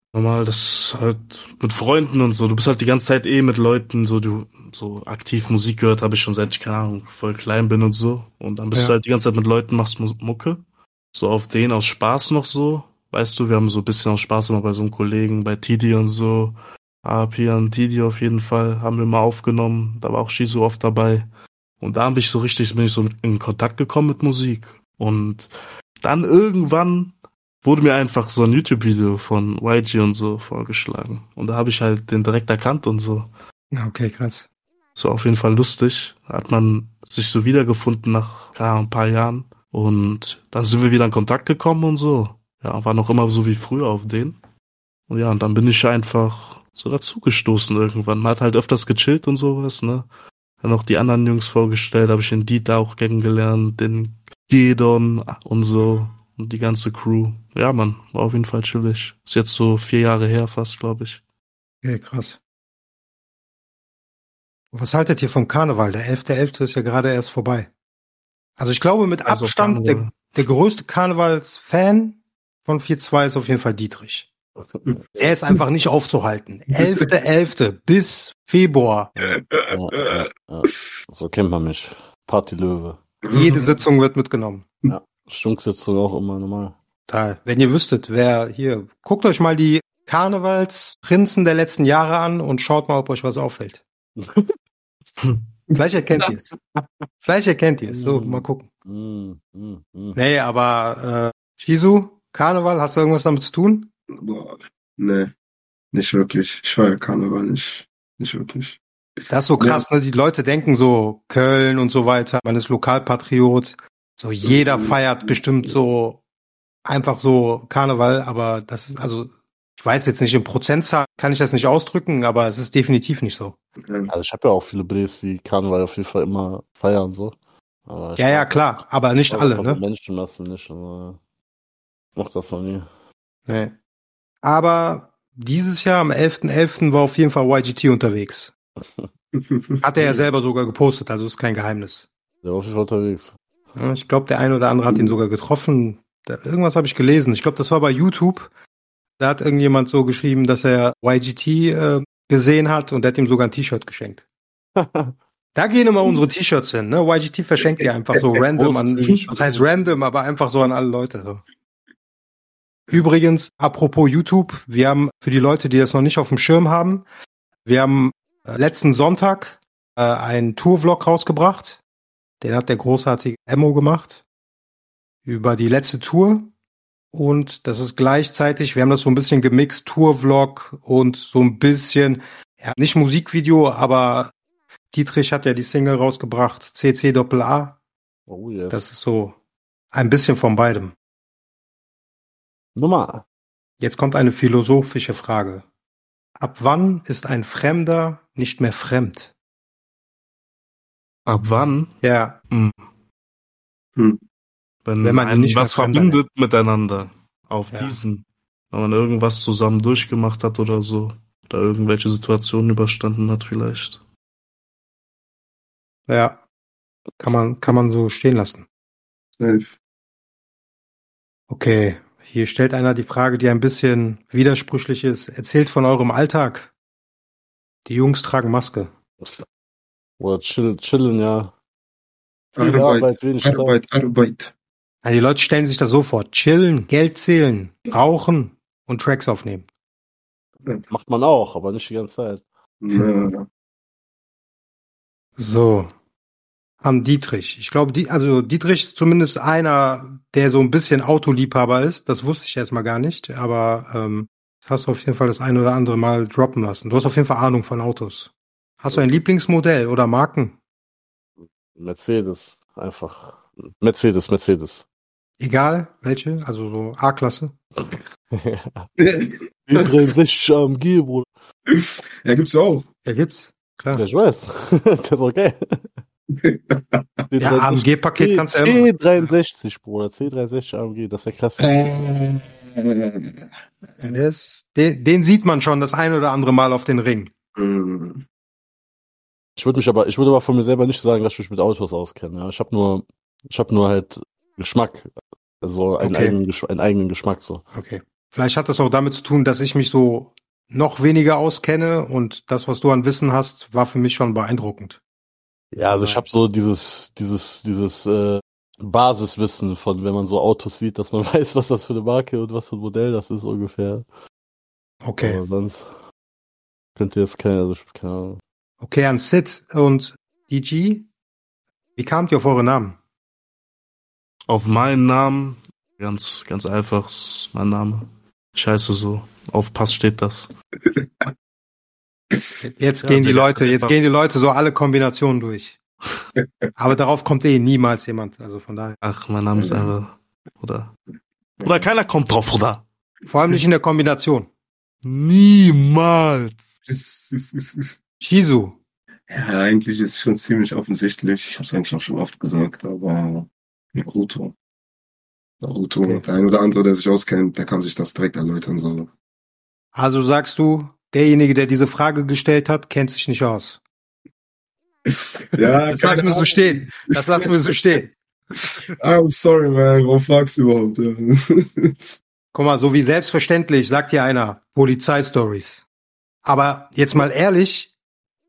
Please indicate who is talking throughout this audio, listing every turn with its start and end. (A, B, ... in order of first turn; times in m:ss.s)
0:00.1-0:10.6 A
0:11.1-0:21.3 A
0:21.8-0:33.3 A
0:33.7-0:34.5 B
0:35.0-0:44.4 A
0:45.1-0:50.1 A
0:50.6-1:01.2 A
1:01.8-1:02.4 B
1:04.7-1:07.7 B
1:08.6-1:14.3 B
1:09.2-1:10.1 A
1:14.6-1:15.0 C
1:15.2-1:19.1 B
1:16.7-1:17.1 D
1:19.2-1:20.1 D
1:19.7-1:23.0 C
1:23.2-1:23.8 D
1:23.3-1:24.6 B
1:24.9-1:26.8 C
1:27.1-1:33.8 B
1:34.2-1:34.5 C
1:35.7-1:36.3 D
1:35.7-1:36.5 B
1:37.2-1:38.7 B
1:37.8-1:40.2 C
1:40.1-1:43.9 B
1:44.1-1:45.3 D
1:45.9-1:48.8 D
1:49.3-1:56.2 B
1:49.6-1:49.8 D
1:54.4-1:55.3 D
1:56.8-2:03.6 B
2:04.1-2:11.2 C
2:08.2-2:09.8 B
2:12.2-2:12.9 C
2:13.4-2:13.7 B
2:14.4-2:18.5 B
2:19.4-2:20.2 D
2:19.8-2:22.1 B
2:22.4-2:23.4 C
2:23.7-2:28.5 B
2:24.9-2:25.1 D
2:29.2-2:34.2 B
2:34.8-2:35.1 C
2:35.5-2:41.4 B
2:38.6-2:39.6 C
2:42.9-2:47.0 B
2:47.6-2:51.8 B
2:52.4-2:54.2 B
2:55.2-2:56.5 B
2:57.1-3:04.3 B
3:04.9-3:07.8 B
3:08.3-3:08.9 C
3:08.7-3:09.4 B
3:09.9-3:10.9 B
3:12.7-3:13.2 C
3:13.8-3:15.6 B
3:16.4-3:19.3 B
3:21.2-3:21.9 A
3:22.0-3:22.4 B
3:22.5-3:22.8 A
3:24.8-3:34.0 A
3:25.0-3:26.2 B
3:27.7-3:28.0 B
3:36.1-3:36.4 B
3:37.2-3:38.6 B
3:39.4-3:39.7 D
3:41.5-3:46.7 B
3:47.8-3:48.9 B
3:50.2-3:51.5 C
3:52.6-3:54.5 D
3:52.6-3:53.8 C
3:55.0-3:59.7 B
4:00.9-4:02.4 C
4:02.8-4:03.5 D
4:05.4-4:05.9 B
4:06.8-4:20.6 B
4:21.4-4:24.8 C
4:25.4-4:27.5 B
4:27.8-4:28.9 C
4:29.0-4:30.0 D
4:29.7-4:31.3 C
4:31.7-4:32.8 D
4:33.0-4:34.0 B
4:33.9-4:36.0 C
4:36.4-4:37.0 D
4:37.3-4:41.7 C
4:37.4-4:39.3 B
4:41.6-4:43.3 D
4:44.0-4:47.3 B
4:47.6-4:48.2 D
4:49.6-4:57.6 C
4:56.0-4:56.4 B
4:57.7-5:05.0 B
5:05.7-5:14.0 C
5:05.9-5:06.2 B
5:15.0-5:15.4 B
5:15.2-5:15.9 C
5:17.0-5:18.4 C
5:18.8-5:21.0 B
5:22.0-5:23.0 B
5:24.5-5:30.5 A
5:30.9-5:31.2 D
5:32.6-5:35.8 B
5:33.0-5:33.9 A
5:36.8-5:39.0 B
5:39.0-5:40.9 A
5:39.5-5:39.9 D
5:41.6-5:41.9 D
5:41.6-5:42.8 A
5:43.3-5:44.5 B
5:45.0-5:46.6 A
5:46.9-5:47.9 D
5:48.2-5:48.8 B
5:49.3-5:54.5 D
5:55.6-5:59.1 D
5:59.9-6:03.8 B
6:05.1-6:07.7 D
6:05.8-6:08.2 B
6:08.6-6:12.2 D
6:12.5-6:15.8 B
6:16.4-6:17.9 B